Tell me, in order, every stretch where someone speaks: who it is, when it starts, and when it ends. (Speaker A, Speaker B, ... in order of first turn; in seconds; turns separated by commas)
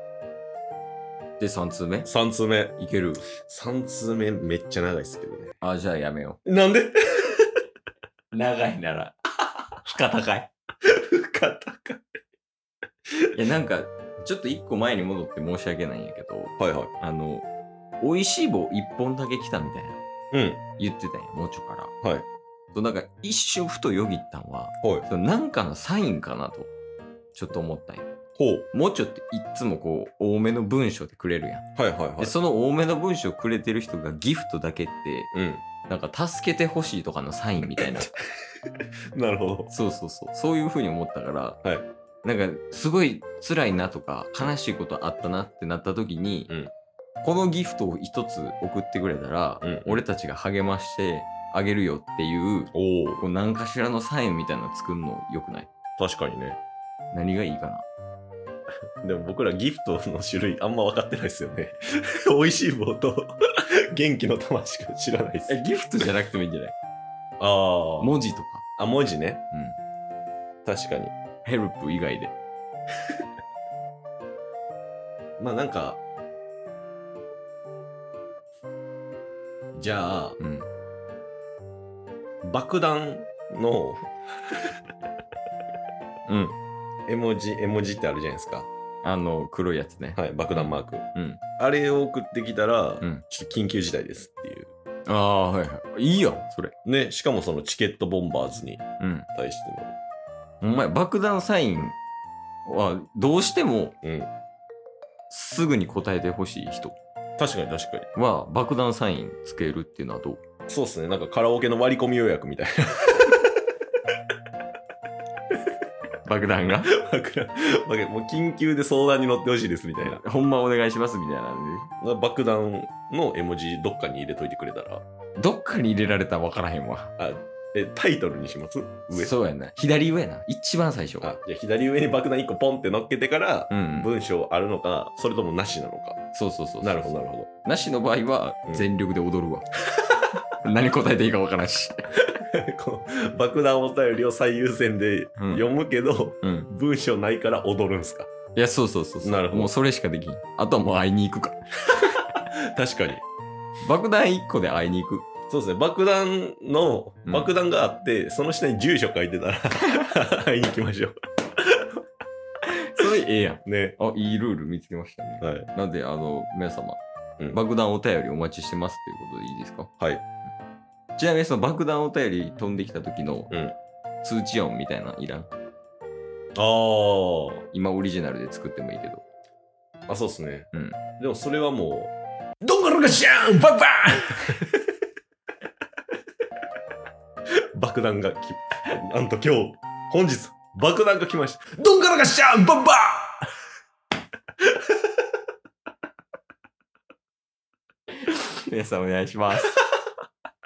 Speaker A: 1.4-2.1, Speaker B: 2.0-2.7, Speaker A: 2.8-3.2, Speaker B: 3.4-5.6, Speaker A: 5.6-6.4, Speaker B: 6.5-7.5, Speaker A: 8.3-9.1, Speaker A: 9.8-10.5, Speaker B: 10.9-12.0, Speaker A: 13.3-17.4, Speaker B: 16.6-16.9, Speaker A: 18.0-20.0, Speaker B: 20.3-20.6, Speaker A: 20.8-21.9, Speaker A: 22.7-26.7, Speaker A: 27.3-28.1, Speaker B: 28.4-28.7, Speaker A: 28.7-31.6, Speaker B: 31.8-32.4, Speaker A: 32.2-35.3, Speaker B: 35.3-35.6, Speaker A: 35.9-38.1, Speaker B: 39.1-39.7, Speaker A: 39.7-41.6, Speaker A: 42.2-46.5, Speaker A: 47.2-55.7, Speaker B: 49.6-50.0, Speaker B: 52.7-53.2, Speaker B: 56.0-56.6, Speaker A: 57.1-57.8, Speaker B: 59.0-63.3, Speaker B: 63.9-65.6, Speaker A: 65.5-66.7, Speaker B: 67.4-68.1, Speaker A: 68.0-68.6, Speaker B: 68.8-69.4, Speaker A: 69.5-69.8, Speaker B: 70.6-71.1, Speaker A: 71.4-72.3, Speaker B: 75.4-76.0, Speaker B: 79.8-80.4, Speaker A: 80.4-80.7, Speaker B: 82.4-84.1, Speaker A: 86.3-86.5, Speaker B: 87.1-88.7, Speaker A: 89.0-91.4, Speaker B: 90.2-91.0, Speaker B: 91.6-94.7, Speaker A: 95.1-96.7, Speaker B: 96.8-99.9, Speaker A: 99.0-99.3, Speaker A: 100.6-102.0, Speaker A: 102.7-104.0, Speaker B: 104.0-104.3, Speaker A: 105.3-107.0, Speaker B: 107.4-108.1, Speaker A: 108.1-110.4, Speaker B: 110.7-113.3, Speaker A: 116.2-116.9, Speaker B: 116.8-120.2, Speaker A: 120.0-121.9, Speaker B: 122.0-125.0, Speaker A: 125.4-127.1, Speaker B: 127.2-129.3, Speaker A: 129.1-131.3, Speaker B: 131.2-136.2, Speaker A: 133.7-134.1, Speaker A: 136.3-137.1, Speaker B: 136.8-137.5, Speaker A: 137.6-139.7, Speaker A: 140.6-141.9, Speaker B: 142.6-148.3, Speaker A: 146.4-146.7, Speaker A: 148.5-151.6, Speaker B: 149.2-149.7, Speaker B: 152.7-153.2, Speaker A: 153.8-155.2, Speaker B: 155.5-161.1, Speaker A: 157.3-157.5, Speaker A: 162.9-169.9, Speaker B: 163.6-164.0, Speaker B: 165.4-165.7, Speaker A: 171.2-173.5, Speaker B: 173.5-173.8, Speaker A: 174.2-175.5, Speaker B: 176.5-177.6, Speaker A: 177.7-179.2, Speaker B: 180.1-180.7, Speaker A: 180.7-181.0, Speaker B: 181.2-184.8, Speaker B: 187.8-193.5, Speaker A: 198.3-199.7